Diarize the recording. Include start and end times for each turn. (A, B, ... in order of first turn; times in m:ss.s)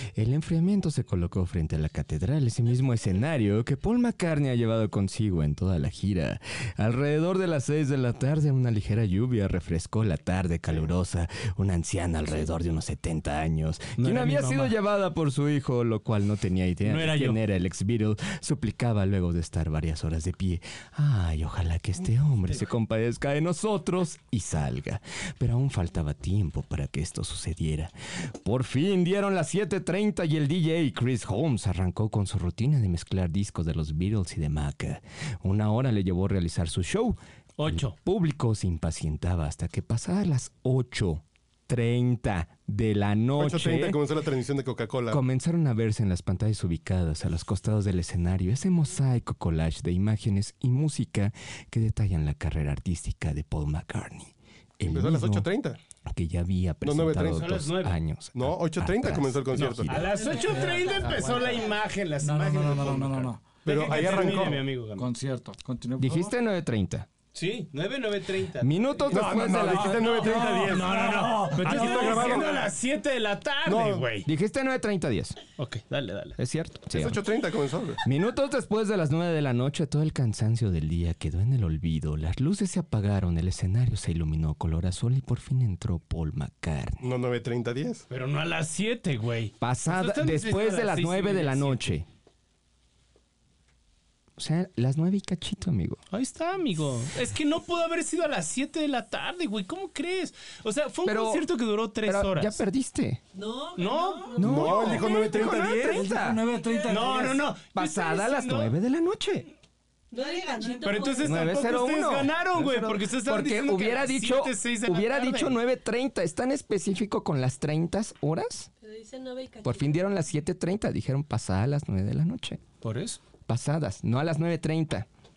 0:00.1-0:44.0 A
0:14.0-0:14.7 B
0:16.8-0:17.4 B
0:37.6-0:38.0 B
0:43.3-0:45.2 C
0:45.1-0:55.5 A
0:54.8-0:55.8 C
0:56.0-1:00.0 A
0:56.8-0:57.6 C
0:57.2-0:58.0 B
0:58.3-1:00.1 C
0:59.6-1:05.1 B
1:00.0-1:01.7 D
1:00.2-1:04.4 E
1:03.6-1:04.6 C
1:05.0-1:06.3 E
1:06.0-1:07.1 A
1:07.3-1:14.3 B
1:08.6-1:10.3 A
1:09.1-1:12.7 C
1:09.9-1:12.5 E
1:13.6-1:14.1 C
1:14.2-1:15.4 A
1:15.6-1:16.4 B
1:16.4-1:17.2 A
1:16.9-1:18.0 C
1:18.0-1:27.0 A
1:27.0-1:28.0 C
1:28.1-1:31.8 B
1:29.6-1:32.1 A
1:34.4-1:36.0 A
1:36.1-1:42.6 B
1:41.0-1:41.5 A
1:42.0-1:43.2 A
1:43.3-1:45.2 D
1:43.8-1:45.1 B
1:44.4-1:46.4 A
1:44.4-1:46.1 C
1:44.7-1:47.5 E
1:46.6-1:47.3 D
1:46.8-1:48.7 B
1:47.7-1:49.5 A
1:50.1-1:51.6 D
1:50.8-1:55.6 B
1:51.2-1:58.7 A
1:58.8-2:00.2 D
1:59.6-2:02.6 A
2:02.8-2:03.2 B
2:03.5-2:05.1 A